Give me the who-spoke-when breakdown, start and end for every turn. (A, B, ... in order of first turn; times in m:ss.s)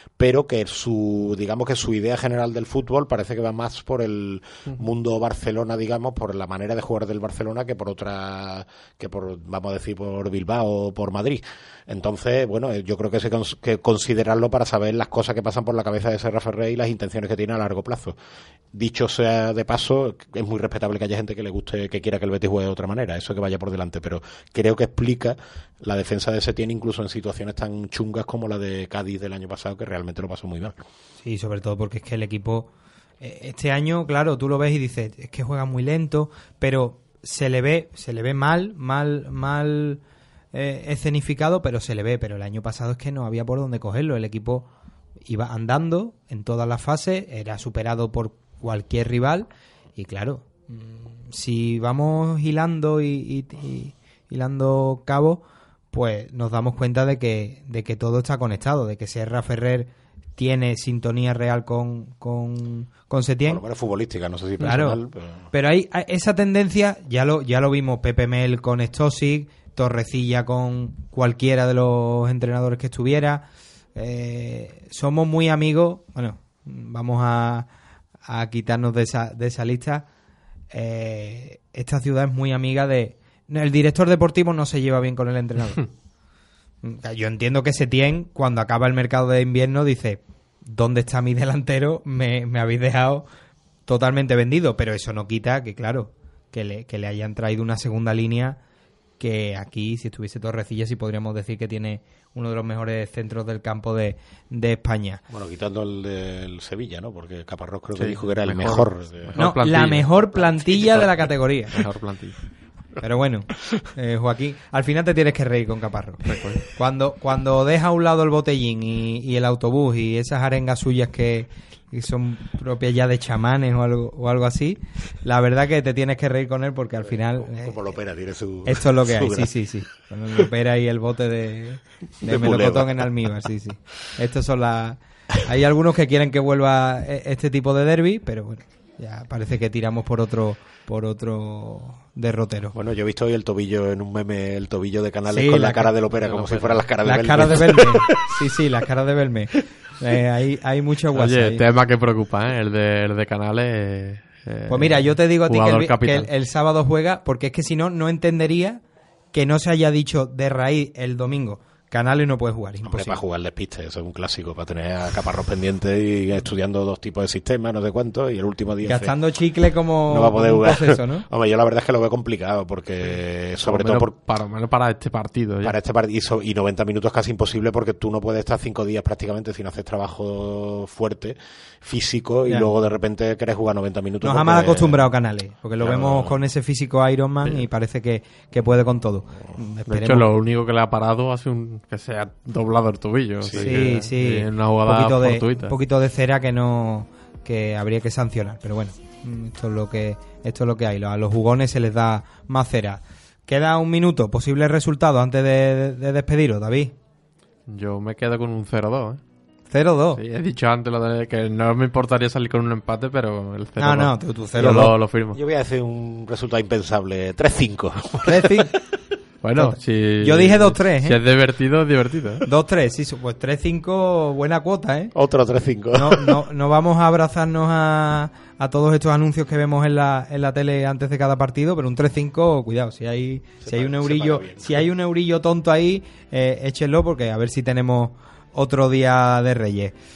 0:00.2-0:18.2 A
0:18.7-0:30.8 A
0:31.2-0:40.0 B
0:40.5-0:44.7 B
0:45.2-1:03.6 B
1:03.5-1:05.5 A
1:04.6-1:17.7 B
1:18.2-1:20.1 B
1:20.7-1:25.9 B
1:26.8-1:33.3 B
1:33.9-1:38.6 B
1:39.2-1:45.2 B
1:45.3-1:49.5 A
1:48.0-1:51.1 C
1:49.4-1:51.9 B
1:50.5-1:51.0 A
1:51.7-1:52.4 C
1:53.0-2:07.9 B
1:56.3-1:56.6 C
2:07.0-2:09.6 A
2:08.7-2:22.8 B
2:12.2-2:13.1 A
2:22.7-2:28.4 A
2:25.3-2:25.9 B
2:26.1-2:26.8 C
2:27.0-2:31.6 B
2:31.2-2:36.3 C
2:34.7-2:38.8 B
2:39.3-2:43.2 B
2:42.8-2:49.1 A
2:48.8-2:51.3 B
2:50.1-2:54.1 A
2:53.6-2:55.8 C
2:55.6-3:05.1 A
3:04.2-3:10.3 B
3:05.8-3:06.4 A
3:09.9-3:15.7 C
3:13.4-3:13.9 A
3:13.5-3:27.0 B
3:27.7-3:29.2 C
3:29.7-3:30.2 B
3:30.2-3:35.4 C
3:33.8-3:35.0 B
3:35.3-3:38.7 A
3:38.2-3:38.7 B
3:39.4-3:42.4 C
3:39.6-3:41.2 B
3:42.4-3:45.1 B
3:45.1-3:46.5 A
3:46.0-4:00.0 B
3:53.6-3:54.9 A